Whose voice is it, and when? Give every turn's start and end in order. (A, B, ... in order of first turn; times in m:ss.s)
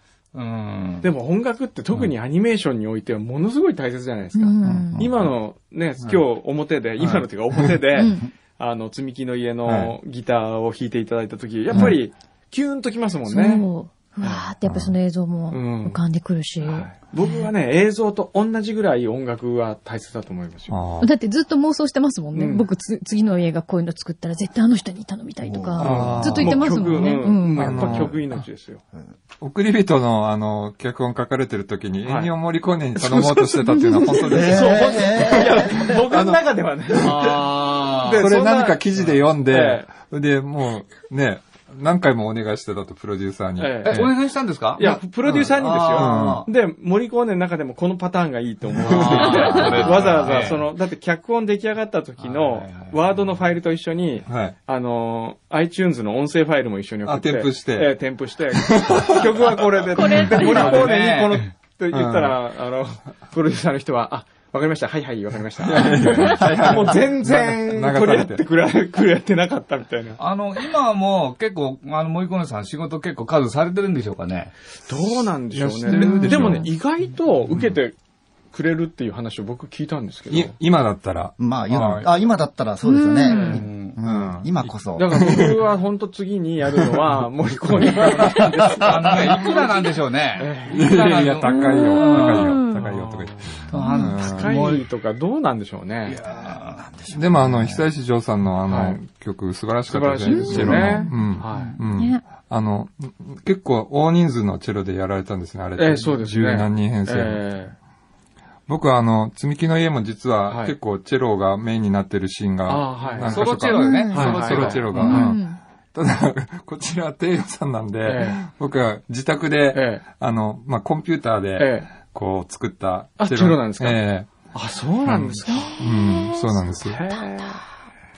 0:00.3-0:01.1 A
0:01.0-0:13.7 B
0:04.4-0:05.0 C
0:04.6-0:05.0 D
0:05.0-0:05.2 E
0:07.0-0:07.8 E
0:08.0-0:08.2 C
0:09.6-0:09.9 E
0:13.3-0:17.5 C
0:14.7-0:14.9 E
0:15.5-0:16.0 B
0:16.6-0:20.8 B
0:20.7-0:21.1 E
0:21.0-0:28.0 C
0:22.3-0:22.6 B
0:25.4-0:26.2 D
0:25.8-0:28.2 E
0:25.8-0:28.8 B
0:29.4-0:35.1 E
0:32.0-0:32.3 B
0:33.0-0:33.6 B
0:33.8-0:34.2 C
0:34.2-0:39.9 B
0:34.3-0:35.9 D
0:36.1-0:36.4 E
0:37.0-0:37.3 E
0:38.0-0:44.1 E
0:43.6-0:44.1 B
0:43.8-0:44.8 A
0:44.8-1:10.2 B
0:44.8-0:46.5 E
0:45.7-0:46.0 A
0:45.9-0:46.2 D
0:48.8-0:50.2 E
0:48.8-0:50.6 A
0:52.2-0:53.0 A
0:54.3-0:54.5 E
0:57.0-0:57.9 E
0:58.5-0:59.7 E
0:59.9-1:00.8 C
1:00.4-1:01.5 A
1:00.4-1:00.8 E
1:01.9-1:02.4 E
1:05.6-1:08.4 E
1:10.2-1:14.5 A
1:14.9-1:17.9 B
1:14.9-1:16.7 E
1:15.9-1:16.7 C
1:18.5-1:20.6 B
1:20.3-1:22.0 E
1:21.4-1:25.2 D
1:21.7-1:22.0 A
1:22.8-1:23.6 C
1:23.3-1:23.6 B
1:23.4-1:24.0 A
1:24.0-1:25.6 E
1:24.9-1:29.6 B
1:28.8-1:32.7 A
1:30.4-1:36.2 B
1:30.7-1:34.5 E
1:31.4-1:32.8 C
1:33.7-1:34.8 A
1:33.7-1:34.1 C
1:36.1-1:36.9 A
1:36.2-1:37.8 D
1:37.1-1:47.4 E
1:38.7-1:39.0 B
1:39.9-1:41.8 B
1:40.3-1:41.1 C
1:41.9-1:42.2 C
1:45.8-1:47.7 B
1:48.7-2:04.3 E
1:50.5-1:50.7 B
1:52.7-1:55.3 B
1:53.2-1:55.2 A
1:53.7-1:55.6 C
1:58.0-1:58.4 B
1:59.7-2:00.0 B
2:01.6-2:01.9 B
2:03.2-2:04.0 B
2:04.5-2:05.8 B
2:05.0-2:07.0 E
2:05.5-2:07.6 C
2:06.6-2:07.6 B